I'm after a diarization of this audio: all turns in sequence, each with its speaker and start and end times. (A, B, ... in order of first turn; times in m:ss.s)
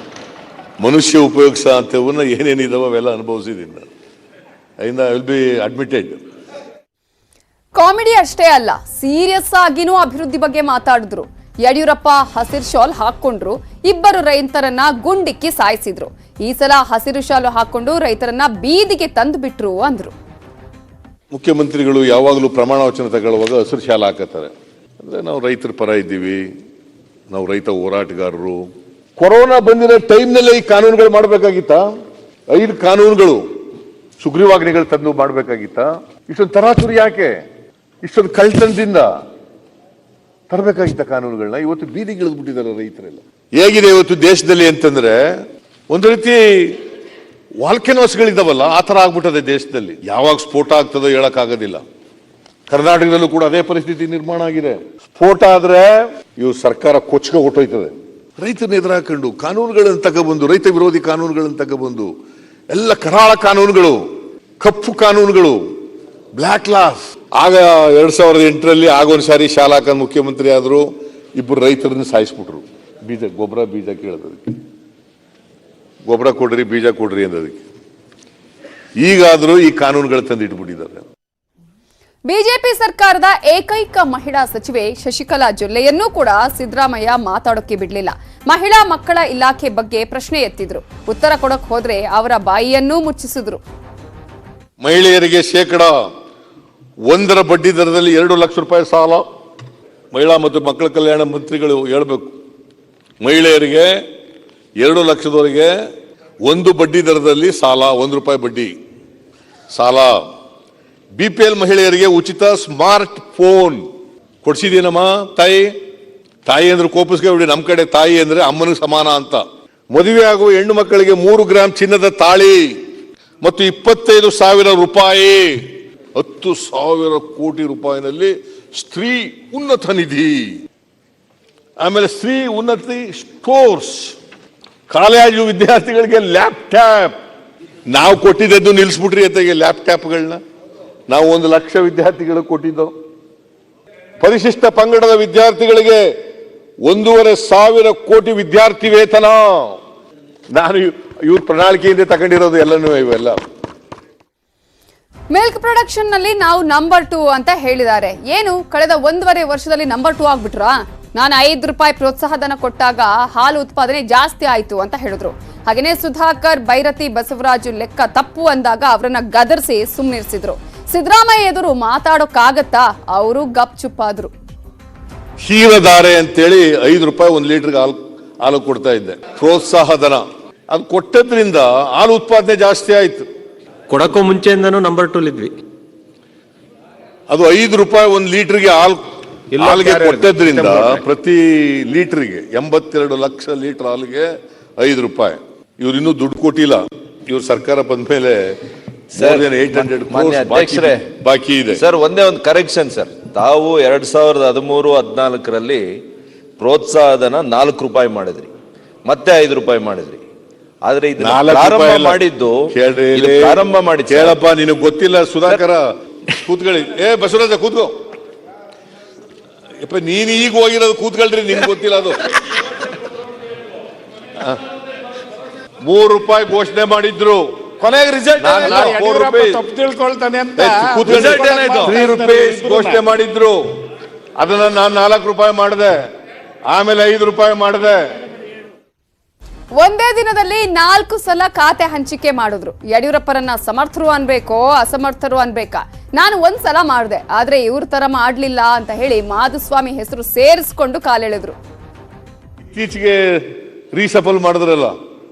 0:00.8-0:03.9 A
0:04.8-0:06.2 A
0:07.8-0:20.1 B
0:21.3-0:26.5 A
0:27.3-0:31.9 A
0:32.5-0:33.5 A
0:34.2-0:37.4 A
0:38.0-0:39.1 A
0:40.5-0:45.4 A
0:45.9-0:46.8 A
0:47.6-0:51.8 A
0:52.7-1:02.1 A
1:02.7-1:04.1 A
1:04.6-1:05.7 A
1:06.4-1:10.9 A
1:11.4-1:14.6 A
1:16.1-1:17.6 A
1:19.0-1:21.0 A
1:22.3-1:33.6 B
1:34.8-1:36.1 A
1:37.1-1:39.3 A
1:40.1-1:42.3 A
1:43.2-1:44.0 A
1:44.8-1:45.7 A
1:46.4-1:48.7 A
1:49.7-1:50.2 A
1:51.2-1:53.9 A
1:54.4-1:55.7 A
1:56.5-2:02.8 A
2:03.4-2:10.6 A
2:11.8-2:14.2 A
2:14.9-2:17.2 A
2:17.9-2:20.4 A
2:21.1-2:22.9 A
2:24.2-2:26.1 A
2:26.8-2:29.8 A
2:30.6-2:33.4 A
2:35.3-2:54.3 B
2:55.4-3:03.3 A
3:03.9-3:05.6 C
3:07.3-3:09.0 A
3:09.6-3:11.0 C
3:09.6-3:18.6 A
3:19.1-3:21.1 D
3:19.2-3:21.8 A
3:21.7-3:25.8 D
3:26.6-3:28.5 D
3:29.1-3:30.2 D
3:30.8-3:34.4 D
3:31.2-3:35.8 A
3:36.4-3:37.9 A
3:39.8-3:42.3 A
3:45.8-3:49.6 A
3:48.0-3:53.0 E
3:50.6-3:53.6 A
3:54.4-3:56.0 A
3:56.7-3:58.0 A
3:59.8-4:11.6 B
4:12.7-4:14.9 A